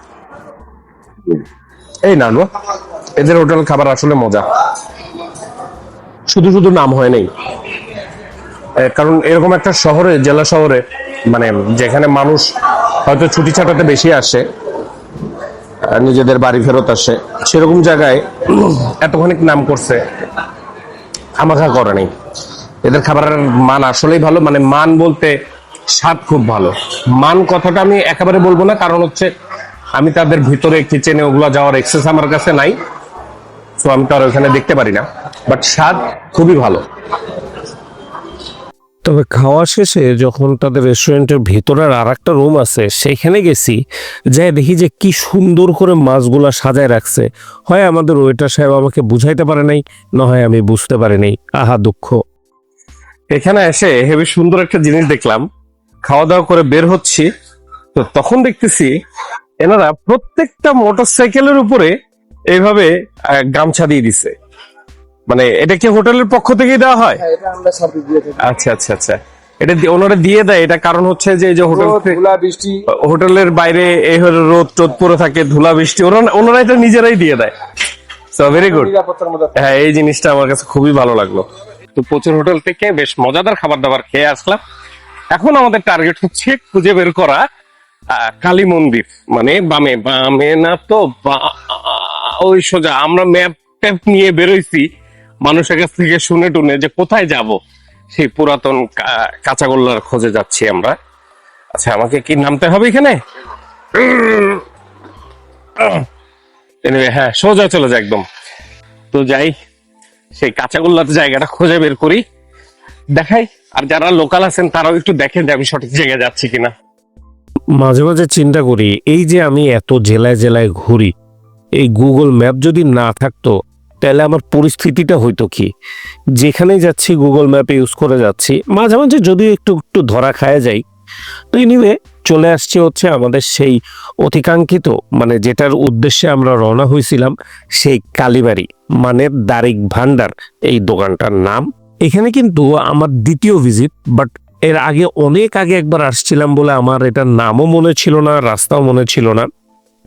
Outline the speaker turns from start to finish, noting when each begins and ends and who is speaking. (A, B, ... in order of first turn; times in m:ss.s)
0:02.0-0:02.5 A
0:03.2-0:04.4 A
0:06.3-0:07.3 A
0:08.8-0:14.4 A
0:15.9-0:20.0 A
0:21.4-0:22.1 A
0:22.8-0:25.4 A
0:25.9-0:29.3 A
0:29.9-0:32.8 A
0:33.8-0:36.8 A
0:39.0-0:43.8 B
0:44.3-0:52.2 B
0:53.3-0:55.4 A
0:56.0-0:57.3 A
0:57.9-0:58.9 A
0:59.6-1:01.9 A
1:02.5-1:04.3 A
1:05.3-1:07.3 A
1:07.4-1:08.4 C
1:08.4-1:12.3 A
1:12.0-1:12.8 C
1:12.9-1:17.5 A
1:18.3-1:24.6 A
1:19.0-1:19.4 C
1:25.3-1:27.4 A
1:28.1-1:34.9 A
1:35.4-1:37.6 A
1:38.1-1:41.0 A
1:41.8-1:43.2 A
1:43.9-1:44.6 A
1:45.8-1:46.0 A
1:46.8-1:48.2 A
1:49.1-1:49.5 A
1:50.4-1:52.2 A
1:53.2-1:56.7 A
1:57.8-2:01.1 B
2:01.8-2:05.7 B
2:06.4-2:10.8 B
2:11.5-2:29.5 B